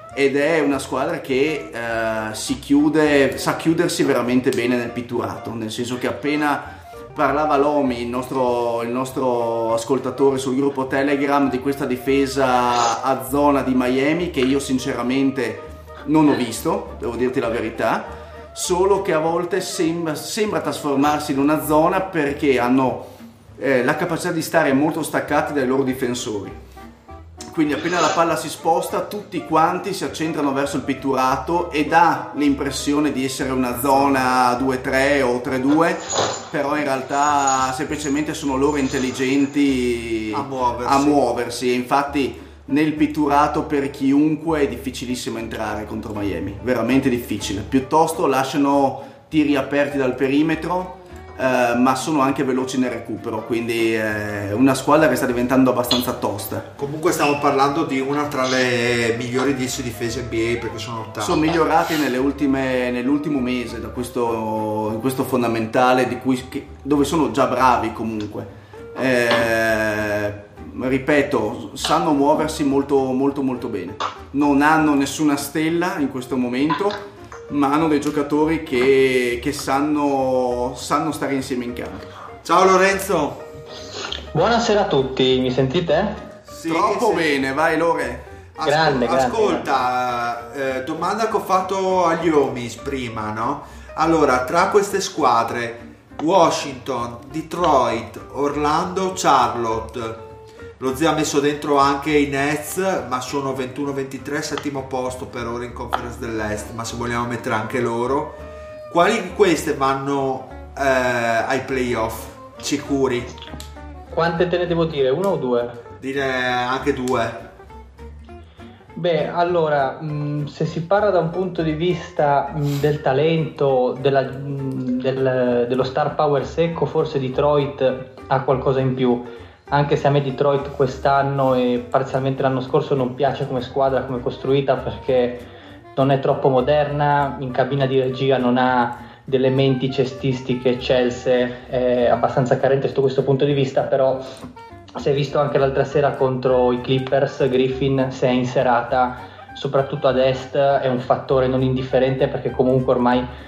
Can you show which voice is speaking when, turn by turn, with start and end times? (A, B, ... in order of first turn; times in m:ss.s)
0:00.1-0:26.6 A
0:27.5-0:56.7 A
0:40.3-0:41.2 B
0:56.8-1:01.5 B
1:01.2-1:22.1 A
1:22.4-1:23.5 B
1:24.3-1:26.3 C
1:26.4-1:27.4 B
1:26.7-1:28.3 A
1:28.6-1:53.3 B
1:28.6-1:29.7 C
1:54.1-1:55.8 C
1:56.0-1:57.5 B
1:58.9-2:24.3 C
2:25.0-2:33.3 C